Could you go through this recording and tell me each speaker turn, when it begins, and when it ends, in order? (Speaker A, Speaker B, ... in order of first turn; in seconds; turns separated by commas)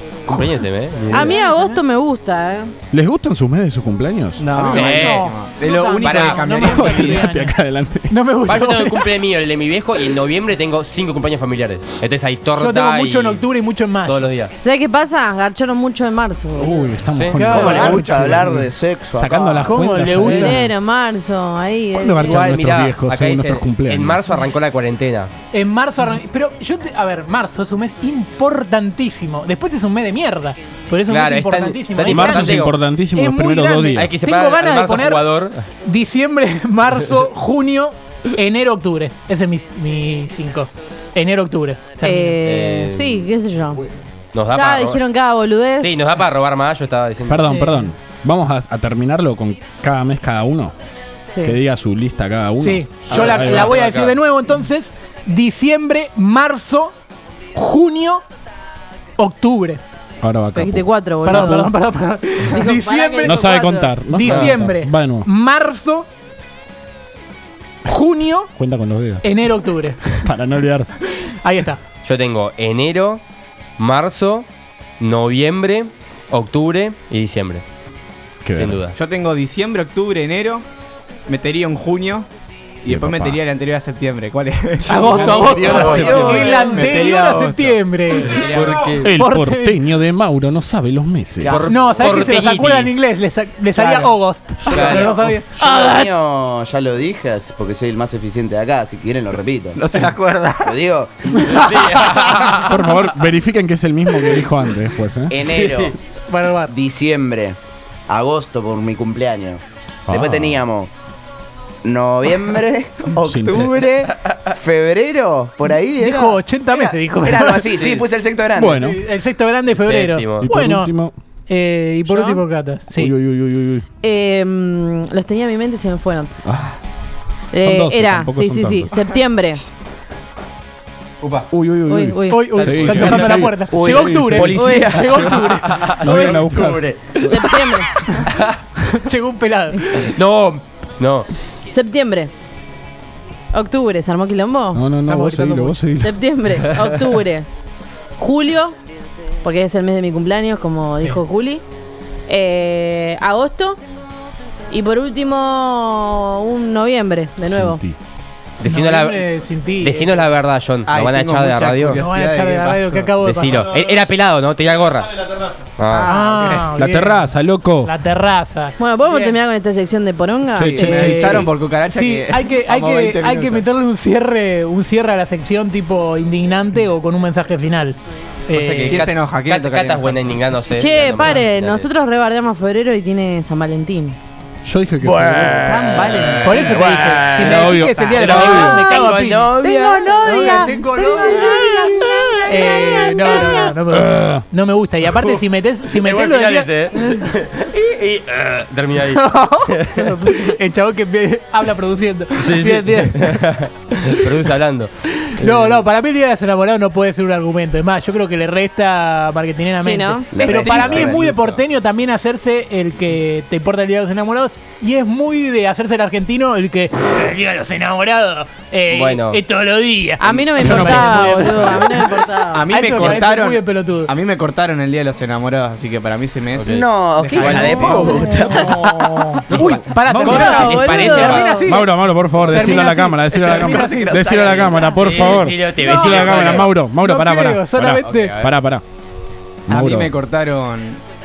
Speaker A: 0.3-1.4, Speaker B: 1.1-1.8, Speaker C: 1.1-2.7, Speaker D: 2.9-4.5, Speaker E: 4.4-7.3, Speaker B: 4.6-7.5, Speaker A: 4.7-5.3, Speaker A: 6.0-6.5, Speaker D: 6.5-8.2, Speaker B: 8.1-9.1, Speaker A: 8.4-13.4, Speaker B: 12.6-14.3, Speaker A: 14.0-14.5, Speaker C: 14.6-16.9, Speaker D: 16.6-20.6, Speaker A: 17.1-17.4, Speaker B: 17.3-18.0, Speaker F: 17.4-20.3, Speaker B: 19.6-20.6, Speaker C: 20.3-22.7, Speaker D: 21.9-24.4, Speaker A: 22.2-25.3, Speaker B: 25.5-42.4, Speaker A: 31.1-32.8, Speaker D: 32.0-34.1, Speaker A: 33.9-35.6, Speaker C: 42.0-43.9, Speaker A: 42.4-43.3, Speaker A: 44.3-45.0, Speaker C: 44.5-46.0, Speaker A: 45.8-47.5, Speaker D: 47.3-50.7, Speaker C: 47.5-47.9, Speaker C: 51.3-51.5, Speaker D: 51.4-53.7, Speaker B: 52.6-56.9, Speaker A: 53.1-54.2, Speaker B: 57.5-58.2, Speaker B: 59.2-59.8, Speaker D: 60.2-61.7, Speaker C: 60.5-61.7, Speaker B: 61.2-63.4, Speaker C: 62.5-64.0, Speaker D: 63.2-65.3, Speaker B: 64.1-66.0, Speaker A: 64.2-64.5, Speaker B: 67.8-68.5, Speaker D: 68.6-69.2, Speaker B: 69.2-70.3, Speaker D: 70.2-70.9, Speaker B: 71.2-71.8, Speaker A: 72.0-73.2, Speaker A: 73.8-74.5, Speaker A: 75.0-77.6, Speaker D: 78.4-78.8, Speaker A: 78.5-78.9, Speaker E: 78.9-80.6, Speaker E: 81.3-82.3, Speaker E: 82.8-89.1, Speaker D: 82.9-83.4, Speaker B: 84.8-88.4, Speaker D: 85.0-86.6, Speaker F: 85.4-86.9, Speaker A: 85.5-86.1, Speaker A: 88.5-89.0, Speaker D: 89.0-91.7, Speaker B: 89.1-89.8, Speaker F: 91.4-92.2, Speaker A: 91.5-93.1, Speaker B: 91.7-95.5, Speaker F: 93.7-94.1, Speaker A: 94.6-95.2, Speaker F: 94.7-99.8, Speaker C: 94.7-95.0, Speaker C: 95.5-96.2, Speaker E: 99.7-100.8, Speaker F: 100.6-101.9, Speaker A: 101.5-103.1, Speaker D: 102.5-105.3, Speaker F: 105.3-106.0, Speaker A: 105.4-106.0, Speaker B: 106.3-106.7, Speaker F: 106.7-107.6, Speaker F: 108.1-110.9, Speaker D: 110.1-110.6, Speaker F: 111.8-118.8, Speaker D: 113.2-113.7, Speaker A: 114.1-114.4, Speaker B: 115.9-117.6, Speaker A: 117.7-118.0, Speaker D: 118.5-119.0, Speaker B: 118.6-120.9, Speaker A: 119.8-120.5, Speaker D: 120.4-121.1, Speaker B: 121.5-123.1, Speaker C: 122.1-122.4, Speaker D: 122.9-123.8, Speaker C: 124.0-126.3, Speaker D: 126.4-126.8, Speaker C: 127.5-129.7, Speaker D: 127.6-128.9, Speaker E: 131.2-131.5, Speaker D: 131.5-136.8, Speaker C: 131.8-132.6, Speaker B: 132.3-135.7, Speaker A: 132.5-133.5, Speaker E: 132.8-133.3, Speaker F: 133.7-135.4, Speaker E: 134.4-135.1, Speaker C: 134.5-134.9, Speaker A: 135.4-138.5, Speaker C: 137.2-138.1, Speaker B: 139.0-140.1, Speaker A: 139.9-141.3, Speaker C: 141.7-142.3, Speaker C: 143.5-144.8, Speaker D: 144.7-146.5, Speaker B: 145.1-145.8, Speaker C: 146.0-147.4, Speaker C: 148.2-148.7, Speaker C: 149.4-151.6, Speaker C: 152.3-153.8, Speaker C: 154.7-157.8, Speaker D: 157.5-157.9, Speaker A: 158.6-159.2, Speaker B: 158.6-160.3, Speaker A: 159.8-162.0, Speaker E: 160.8-163.2, Speaker B: 161.9-163.7, Speaker A: 163.2-166.1, Speaker E: 165.9-166.6, Speaker B: 165.9-169.4, Speaker D: 166.7-167.9, Speaker C: 168.8-171.2, Speaker D: 170.5-171.5, Speaker E: 170.8-173.6, Speaker B: 170.8-179.0, Speaker A: 178.5-181.9, Speaker E: 178.8-180.4, Speaker C: 180.7-184.2, Speaker D: 184.6-185.8, Speaker F: 185.0-187.7, Speaker E: 185.6-186.8, Speaker B: 186.4-189.5, Speaker D: 187.3-188.8, Speaker A: 187.7-190.1, Speaker C: 188.8-189.2, Speaker F: 189.7-192.2, Speaker C: 189.8-193.5, Speaker B: 190.2-191.5, Speaker B: 192.4-197.2, Speaker D: 193.9-194.4, Speaker A: 195.9-200.1, Speaker B: 199.1-203.3, Speaker C: 200.2-200.6, Speaker A: 202.3-204.9, Speaker B: 205.3-221.8, Speaker E: 205.4-205.8, Speaker C: 209.8-210.4, Speaker F: 210.3-211.6, Speaker E: 210.5-211.2, Speaker A: 218.9-219.4, Speaker C: 220.2-223.2, Speaker D: 220.6-221.9, Speaker E: 222.5-228.5, Speaker B: 222.7-224.1, Speaker A: 226.5-226.8, Speaker F: 226.7-229.6, Speaker A: 227.3-227.9, Speaker C: 227.7-228.8, Speaker B: 228.0-231.9, Speaker D: 229.5-230.7, Speaker E: 230.2-231.2, Speaker C: 230.2-231.7, Speaker A: 230.4-231.5, Speaker D: 231.6-238.8, Speaker E: 232.4-234.8, Speaker B: 232.4-234.6, Speaker F: 234.2-235.3, Speaker A: 234.9-236.7, Speaker B: 235.8-238.4, Speaker E: 236.1-236.7, Speaker E: 238.0-238.5, Speaker D: 239.7-240.1, Speaker E: 239.7-241.0